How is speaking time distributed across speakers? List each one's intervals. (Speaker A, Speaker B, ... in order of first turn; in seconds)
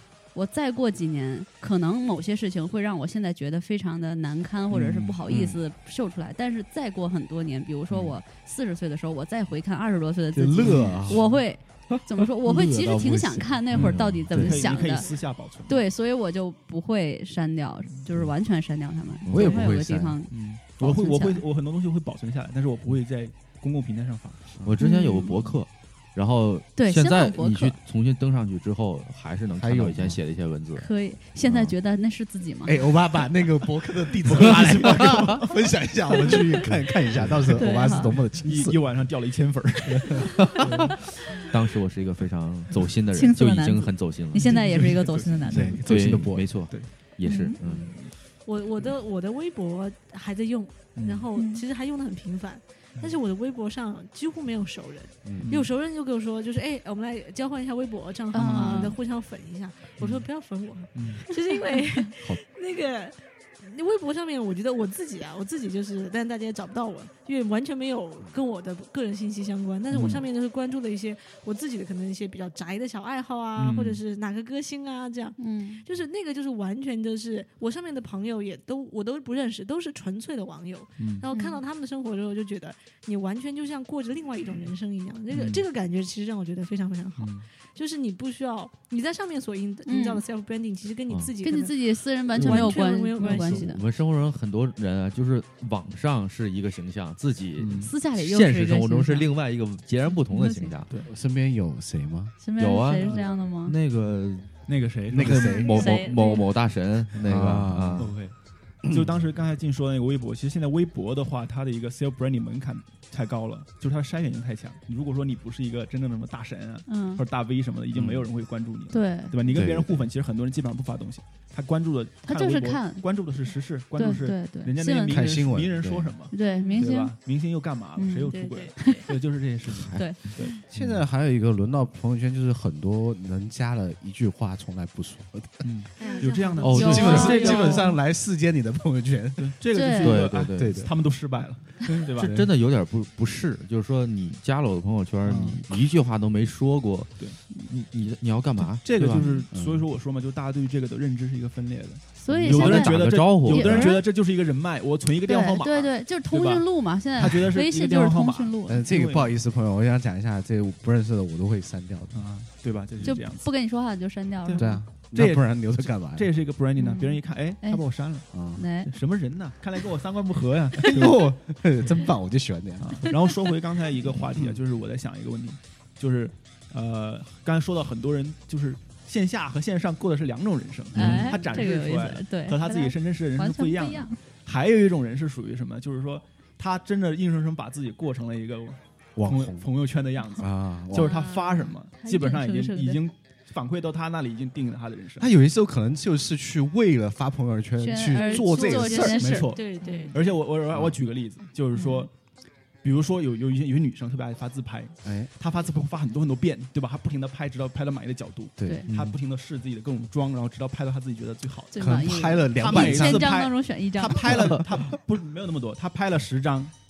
Speaker A: 0.3-15.1, 15.7-21.4, 24.8-25.5, 26.8-27.8, 30.8-32.8, 37.6-38.2, 43.1-45.8, 47.2-47.6, 51.4-51.6, 58.3-59.0, 75.4-75.8, 81.3-81.6, 89.8-90.2, 91.4-93.8, 97.8-99.3, 100.3-100.8, 102.4-103.7, 105.6-106.5, 116.9-117.2, 118.9-119.3, 122.2-123.0, 123.9-125.3, 126.3-127.2, 128.0-129.1, 129.9-130.6, 136.7-137.9, 139.7-140.2, 152.2-154.1, 155.3-158.8, 163.0-164.8, 166.8-167.8, 168.5-168.9, 180.9-184.2, 192.0-193.0, 197.8-200.1, 201.7-202.1, 211.7-214.3
Speaker B: 4.7-5.2, 10.6-11.2, 13.7-15.8, 20.3-24.5, 34.2-35.5, 36.2-36.4, 38.4-41.4, 44.4-46.9, 47.6-48.1, 51.0-51.3, 55.4-55.7, 60.0-60.2, 60.9-61.2, 69.9-70.2, 73.5-74.0, 81.0-81.2, 85.3-85.6, 87.2-87.5, 97.6-97.9, 103.0-103.3, 104.7-105.5, 108.0-130.5, 135.6-137.9, 139.4-142.4, 145.2-145.6, 148.8-159.3, 162.1-163.4, 164.4-168.3, 168.8-171.3, 172.8-195.3, 199.2-202.1, 202.8-211.9, 212.6-216.7
Speaker C: 5.3-5.6, 10.3-11.3, 12.5-13.6, 14.3-14.6, 19.3-20.2, 29.6-30.2, 32.6-38.8, 45.5-46.6, 55.2-55.5, 101.0-102.3, 105.1-106.0, 107.2-108.1, 119.5-120.0, 125.1-126.1, 130.7-135.7, 136.8-139.5, 140.5-140.9, 142.2-142.5, 149.5-149.8, 158.7-162.2, 164.6-166.3, 168.3-168.6, 170.8-173.2, 181.0-181.2, 189.2-189.7, 190.4-191.3, 195.2-199.6, 200.7-201.0, 205.0-205.3, 208.6-208.8, 211.8-213.4
Speaker D: 12.6-14.5, 19.2-19.7, 24.6-30.9, 31.4-31.7, 40.5-40.8, 41.5-44.7, 45.8-48.0, 92.4-100.9, 102.6-108.2, 129.8-130.1, 136.6-137.4, 140.0-140.9, 142.2-149.4, 152.3-153.9, 181.0-181.2, 208.9-209.1
Speaker E: 47.6-93.8, 126.4-126.8, 128.3-129.0, 136.0-138.0, 191.0-191.7, 198.1-200.3